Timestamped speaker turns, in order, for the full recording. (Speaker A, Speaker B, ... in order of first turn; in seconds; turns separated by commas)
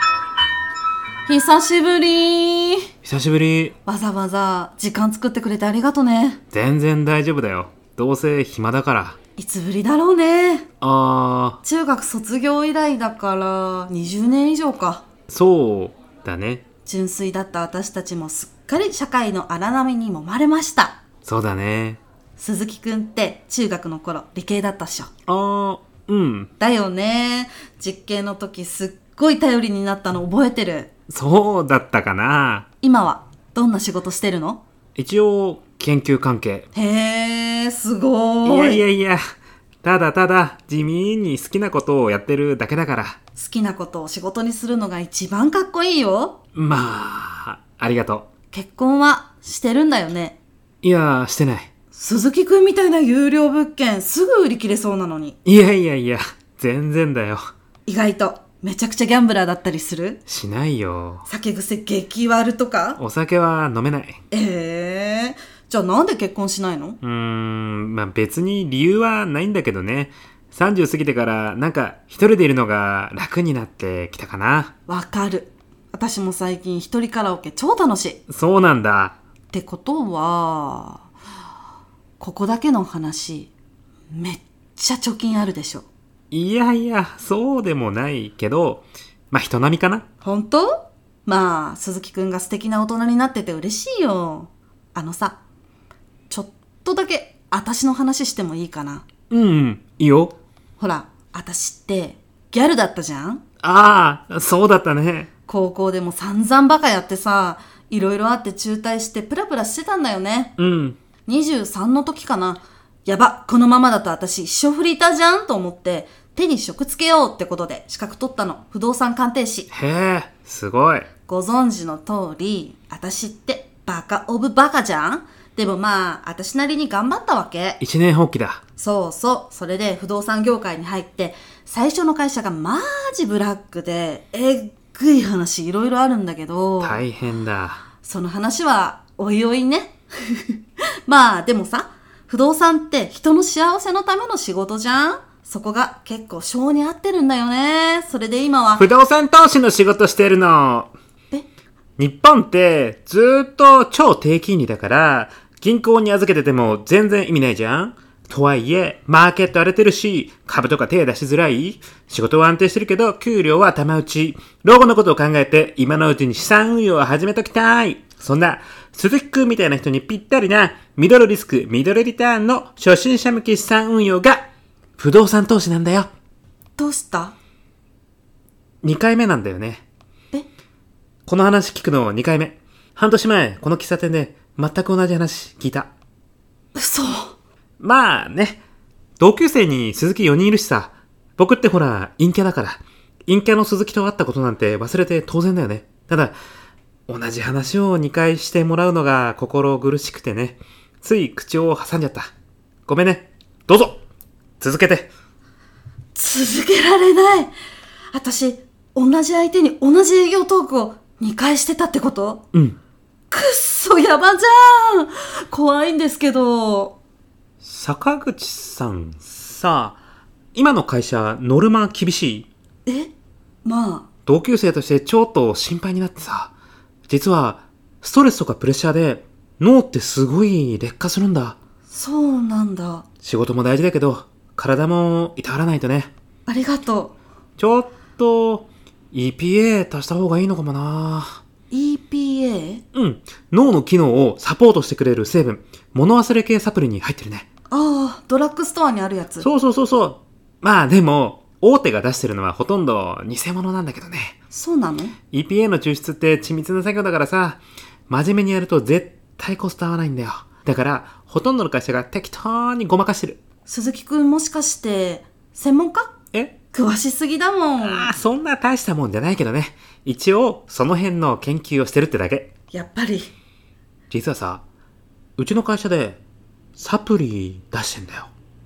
Speaker A: 1.2-2.9, Speaker B: 3.0-3.7, Speaker A: 3.8-6.4, Speaker B: 6.5-9.2, Speaker A: 9.4-10.7, Speaker B: 10.8-11.6, Speaker A: 11.6-15.0, Speaker B: 15.3-16.6, Speaker A: 16.9-21.0, Speaker B: 21.2-22.0, Speaker A: 22.4-25.1, Speaker B: 25.3-26.5, Speaker A: 26.6-30.9, Speaker B: 31.1-32.6, Speaker A: 32.8-34.6, Speaker B: 35.0-36.6, Speaker A: 36.7-38.8, Speaker B: 38.4-39.2, Speaker B: 39.8-43.1, Speaker A: 43.4-46.4, Speaker B: 46.5-48.3, Speaker A: 48.5-50.4, Speaker B: 50.8-51.7, Speaker A: 51.9-55.4, Speaker B: 55.4-57.4, Speaker A: 57.9-60.2, Speaker B: 60.3-61.2, Speaker A: 61.3-63.0, Speaker B: 63.0-64.2, Speaker A: 64.3-67.0, Speaker B: 67.0-74.7, Speaker A: 74.9-78.2, Speaker B: 78.3-79.1, Speaker A: 79.5-81.0, Speaker A: 82.2-83.5, Speaker A: 84.1-85.9, Speaker B: 86.3-90.0, Speaker A: 90.2-90.7, Speaker A: 91.2-95.4, Speaker A: 96.3-99.0, Speaker B: 99.3-100.3, Speaker A: 100.8-103.4, Speaker B: 103.6-105.3, Speaker A: 105.5-110.5, Speaker B: 110.6-111.0, Speaker A: 111.3-119.7, Speaker B: 119.7-121.1, Speaker A: 121.3-127.8, Speaker B: 127.8-128.6, Speaker A: 128.8-137.0, Speaker B: 136.8-137.8, Speaker A: 138.0-148.8, Speaker B: 148.8-150.9, Speaker B: 152.0-174.4, Speaker B: 175.0-176.1, Speaker A: 176.8-177.3, Speaker B: 178.8-179.8, Speaker B: 181.3-185.9, Speaker A: 186.7-187.3, Speaker B: 187.8-188.6, Speaker B: 189.2-196.3, Speaker B: 197.1-202.3, Speaker B: 202.9-204.0, Speaker B: 204.6-205.1, Speaker A: 206.1-207.5, Speaker A: 208.1-212.4, Speaker A: 213.3-217.0, Speaker B: 217.6-220.0, Speaker B: 220.5-222.5, Speaker A: 222.8-223.1, Speaker A: 223.6-224.1, Speaker B: 224.2-226.5, Speaker B: 227.1-231.6, Speaker A: 231.9-233.0, Speaker B: 233.2-236.1, Speaker A: 236.4-237.1, Speaker B: 237.6-241.4, Speaker A: 241.7-242.8, Speaker B: 242.9-247.5, Speaker A: 247.7-249.5, Speaker B: 249.4-254.4, Speaker A: 254.5-255.2, Speaker B: 255.3-263.4, Speaker A: 263.6-266.1, Speaker A: 266.7-268.1, Speaker B: 267.8-272.5, Speaker A: 272.7-273.3, Speaker B: 274.1-274.6, Speaker B: 275.4-276.2, Speaker B: 276.8-278.3